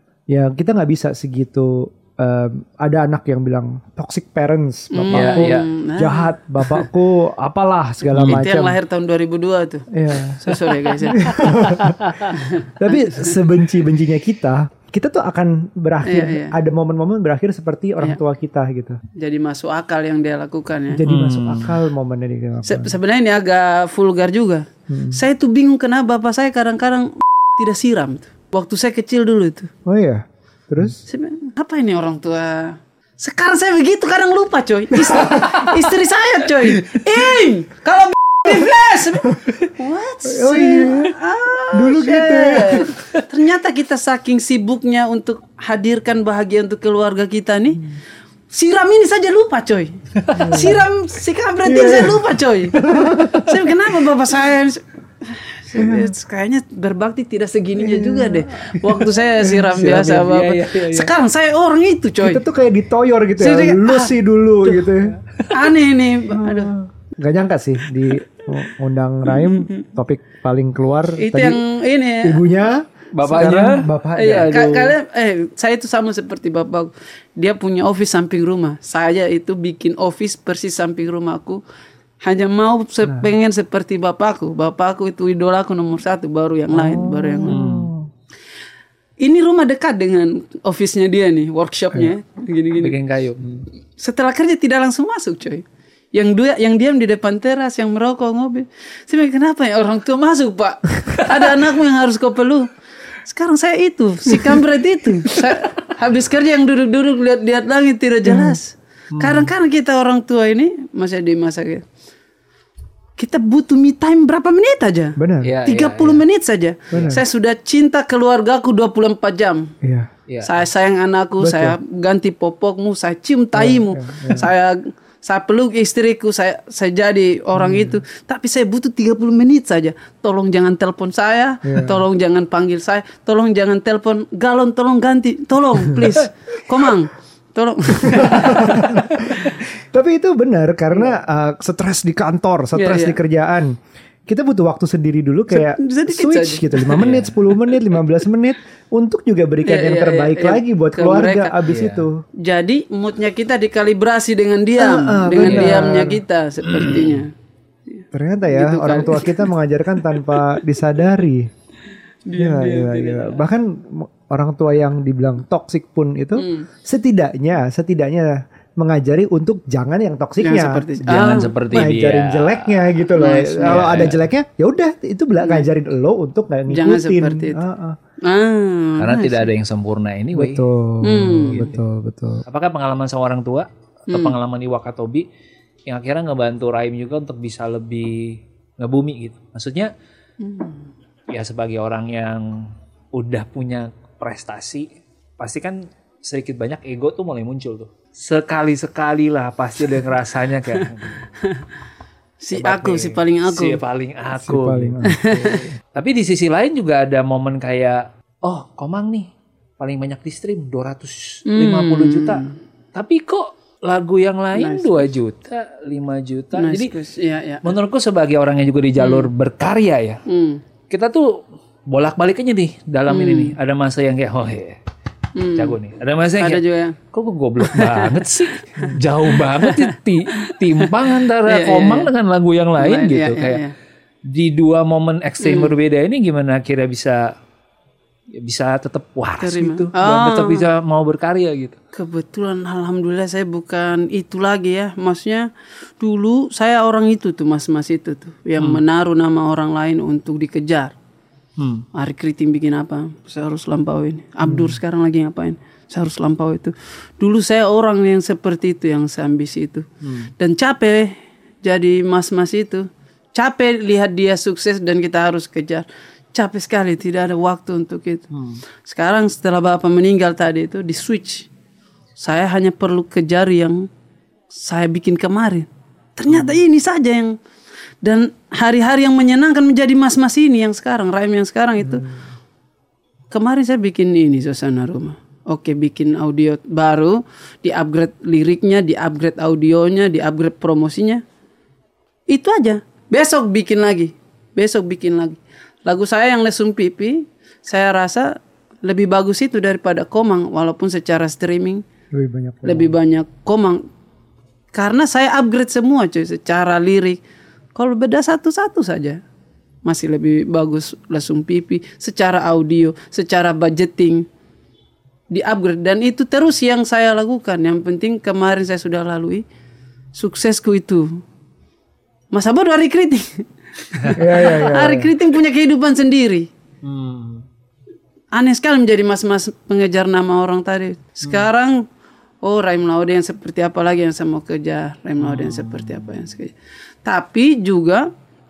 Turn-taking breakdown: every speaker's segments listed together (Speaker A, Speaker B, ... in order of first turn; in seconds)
Speaker A: 0.3-8.8, 9.9-19.0, 20.9-22.9, 24.9-25.2, 29.9-31.0, 40.3-41.2, 41.7-42.9, 50.3-50.8, 51.6-52.2, 52.8-53.5, 55.8-56.1, 57.8-58.5, 59.4-59.8, 62.2-65.2, 66.3-71.6, 72.2-74.9, 86.7-88.1, 108.2-108.6, 115.2-115.5, 116.9-117.2, 119.8-120.1, 121.4-121.8, 123.6-124.5, 131.7-132.0, 138.1-143.8, 144.3-152.2, 154.8-156.2, 158.1-161.5, 162.3-178.0, 180.3-182.4, 204.4-205.7, 281.8-282.2, 302.1-302.9, 324.2-325.1
Speaker B: 4.9-6.9, 8.2-11.5, 12.3-13.3, 16.0-16.5, 19.1-21.0, 22.7-29.7, 31.1-47.9, 48.5-62.4, 63.4-64.2, 65.5-66.7, 71.2-72.4, 74.2-81.6, 82.2-87.6, 89.2-93.0, 94.0-102.7, 103.2-111.8, 113.2-119.7, 120.4-139.1, 142.8-143.2, 145.5-147.1, 149.7-151.5, 152.4-157.3, 157.9-159.5, 162.3-163.4, 166.4-166.7, 170.4-171.6, 173.2-174.1, 175.4-175.7, 176.7-177.6, 178.2-179.5, 181.0-181.6, 184.1-184.3, 190.4-190.9, 202.4-203.8, 205.1-205.6, 211.5-212.6, 214.6-215.0, 216.6-217.7, 219.0-219.3, 220.3-220.6, 223.1-223.6, 225.4-225.8, 226.4-227.0, 227.7-228.2, 228.8-230.9, 231.5-232.1, 232.8-233.7, 235.4-235.8, 239.4-240.6, 241.9-250.9, 251.9-259.9, 260.4-268.3, 268.9-271.5, 272.2-273.9, 274.6-277.4, 278.0-282.0, 283.3-291.2, 292.3-301.8, 302.6-303.9, 304.7-307.2, 307.8-309.2, 309.9-314.3, 315.3-319.4, 320.1-321.2, 322.3-326.5, 328.3-331.9, 332.4-336.5, 337.1-338.1
Speaker C: 5.1-5.7, 8.2-8.4, 11.8-12.3, 21.1-21.8, 59.8-61.1, 73.2-74.8, 87.5-87.9, 92.8-93.6, 109.1-109.5, 115.4-116.2, 147.0-147.4, 151.7-152.1, 155.4-155.7, 156.7-157.2, 171.0-172.9, 173.6-174.2, 179.0-180.6, 181.5-181.8, 182.5-185.3, 185.9-189.9, 191.3-194.9, 195.4-201.3, 202.6-205.1, 205.9-212.4, 212.9-216.9, 217.6-220.2, 220.9-224.8, 225.6-233.6, 234.3-237.3, 238.3-241.8, 251.6-251.9, 260.0-260.3, 268.3-268.6, 326.8-327.4, 335.2-336.1